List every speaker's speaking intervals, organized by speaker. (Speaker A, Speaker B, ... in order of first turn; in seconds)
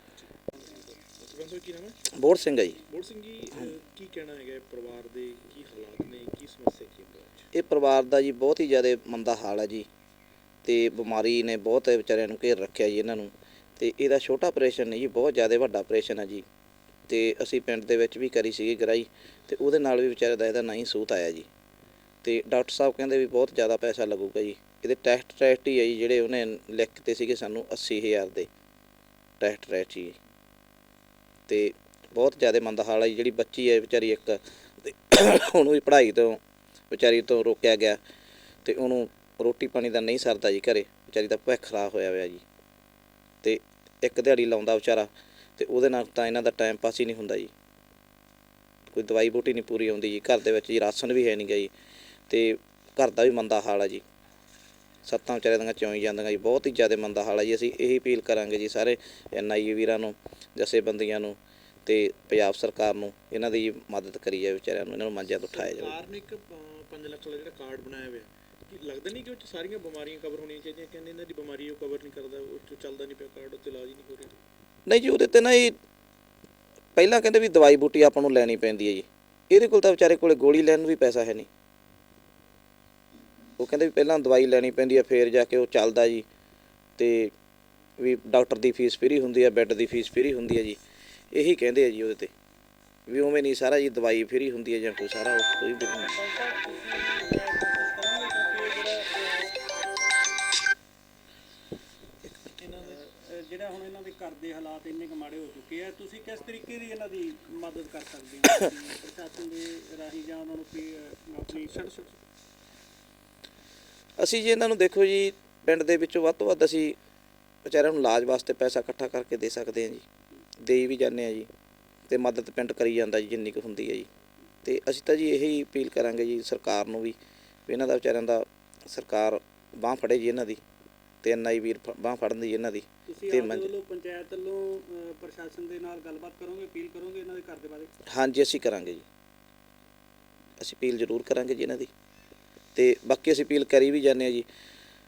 Speaker A: 0.6-2.0, 2.9-7.5, 65.5-74.4, 102.4-103.1, 111.6-111.8
Speaker B: 2.1-2.8, 7.5-9.9, 10.6-16.4, 17.1-21.5, 22.2-28.5, 29.4-30.2, 31.5-36.4, 36.9-38.0, 38.6-42.4, 43.4-47.5, 48.9-51.7, 52.3-54.0, 55.0-65.9, 74.9-75.7, 77.0-81.5, 83.6-86.2, 87.0-87.3, 88.0-90.8, 91.3-92.3, 93.1-96.1, 114.2-117.0, 117.6-120.0, 120.6-121.5, 122.1-124.1, 124.6-130.6, 131.2-133.7, 138.1-139.0, 140.6-141.9, 142.7-144.4
Speaker C: 96.1-99.5, 103.2-112.1, 133.1-137.9